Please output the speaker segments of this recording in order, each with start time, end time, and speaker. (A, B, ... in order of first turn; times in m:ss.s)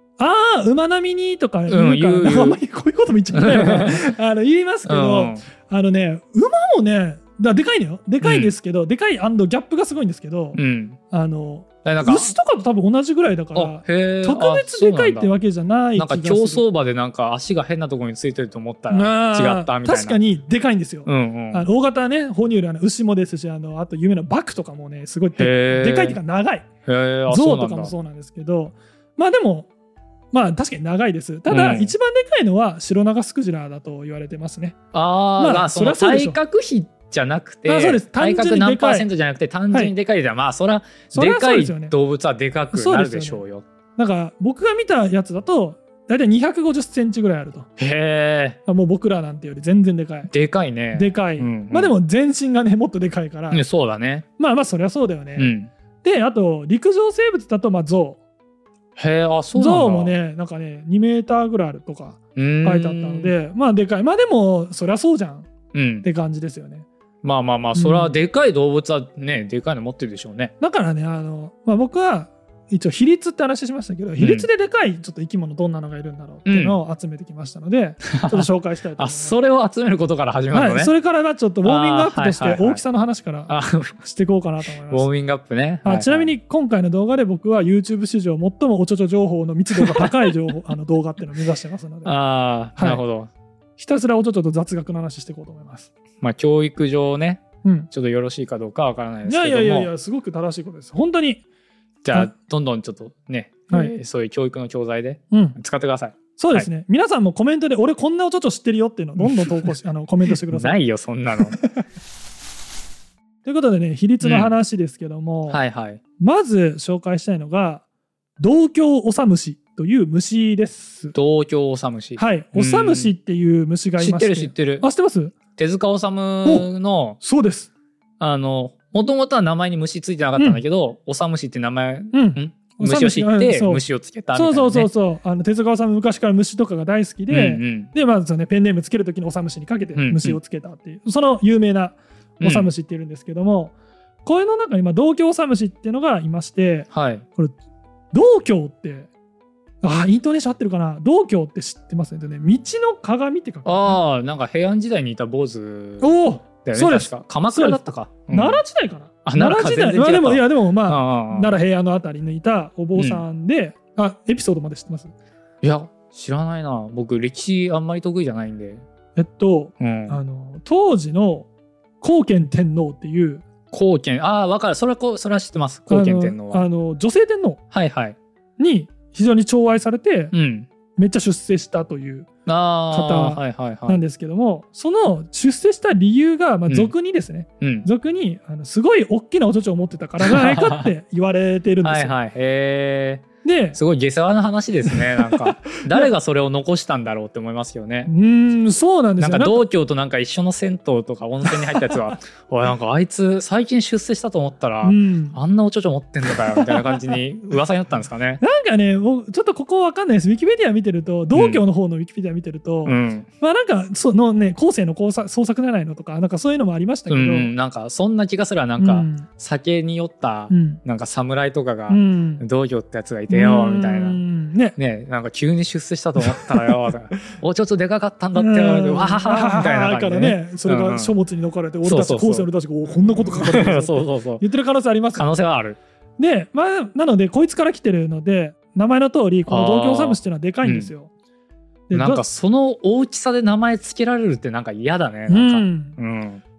0:00.2-0:10.6 A
0:01.7-0:02.6 B
0:03.3-0:04.0 B
0:04.8-0:05.4 B
0:08.2-0:08.5 B
0:10.5-0:11.0 B
0:11.1-0:16.6 A
0:11.8-0:12.3 B
0:13.5-0:15.3 B
0:16.0-0:20.2 B
0:18.9-0:26.7 A
0:21.0-0:21.6 B
0:25.4-0:26.2 B
0:26.8-0:27.9 B
0:27.3-0:29.7 A
0:30.3-0:34.8 A
0:31.5-0:31.9 B
0:34.9-0:43.6 B
0:35.4-0:36.4 A
0:37.6-0:39.1 A
0:41.1-0:41.9 A
0:42.7-0:43.4 A
0:44.0-0:47.7 A
0:47.8-0:48.6 B
0:48.6-0:50.3 A
0:50.3-0:52.0 B
0:50.9-0:53.6 A
0:53.5-0:54.2 B
0:54.4-0:58.2 A
0:55.4-0:55.7 B
0:59.0-1:00.1 B
0:59.5-1:05.5 A
1:02.4-1:03.3 B
1:05.7-1:06.0 B
1:06.0-1:06.8 A
1:07.2-1:10.5 B
1:07.7-1:08.1 A
1:10.6-1:19.4 A
1:14.2-1:14.5 B
1:16.4-1:16.8 B
1:18.1-1:20.9 B
1:20.5-1:25.1 A
1:21.6-1:22.8 B
1:23.5-1:23.9 B
1:24.9-1:26.3 B
1:25.8-1:32.2 A
1:29.7-1:30.3 B
1:32.0-1:33.3 B
1:32.8-1:33.0 A
1:33.8-1:35.9 A
1:36.2-1:39.9 B
1:37.6-1:37.9 A
1:39.2-1:41.4 A
1:42.0-1:46.7 B
1:43.7-1:44.0 A
1:45.3-1:45.6 A
1:46.4-1:50.8 A
1:49.2-1:49.7 B
1:50.5-1:51.6 B
1:53.4-1:55.6 A
1:54.2-1:54.5 B
1:55.5-1:56.0 B
1:56.2-1:57.8 A
1:58.4-2:01.1 A
2:01.1-2:03.1 B
2:02.2-2:05.4 A
2:04.0-2:04.8 B
2:05.6-2:07.2 B
2:06.4-2:06.7 A
2:07.2-2:07.7 A
2:08.2-2:14.9 B
2:10.4-2:10.6 A
2:12.1-2:27.5 A
2:17.3-2:17.9 B
2:20.0-2:20.4 B
2:22.4-2:22.7 B
2:26.9-2:27.2 B
2:28.1-2:29.1 A
2:29.8-2:34.0 A
2:33.6-2:38.6 B
2:36.0-2:45.1 A
2:39.2-2:41.5 B
2:43.0-2:43.2 B
2:45.6-2:48.8 B
2:49.2-2:51.5 A
2:49.8-2:50.2 B
2:52.0-2:53.4 A
2:53.7-2:56.6 B
2:55.9-2:57.6 A
2:57.7-2:58.2 B
2:58.6-3:00.3 A
3:00.3-3:00.7 B
3:01.0-3:02.3 A
3:02.4-3:04.0 B
3:02.9-3:12.1 A
3:07.6-3:07.9 B
3:10.2-3:10.9 B
3:11.8-3:18.1 B
3:13.4-3:13.8 A
3:14.9-3:16.1 A
3:18.1-3:19.6 A
3:19.2-3:28.4 B
3:21.5-3:22.1 A
3:24.8-3:25.4 A
3:26.3-3:27.2 A
3:28.4-3:37.5 A
3:31.3-3:31.6 B
3:32.8-3:33.3 B
3:37.1-3:44.2 B
3:38.8-3:39.3 A
3:40.5-3:40.8 A
3:41.9-3:42.4 A
3:43.3-3:44.8 A
3:44.8-3:51.1 B
3:46.2-3:46.7 A
3:48.3-3:55.3 A
3:51.8-3:54.4 B
3:55.1-3:55.8 B
3:56.2-4:01.1 A
3:59.5-4:00.9 B
4:01.9-4:02.2 A
4:01.9-4:06.4 B
4:05.3-4:06.0 A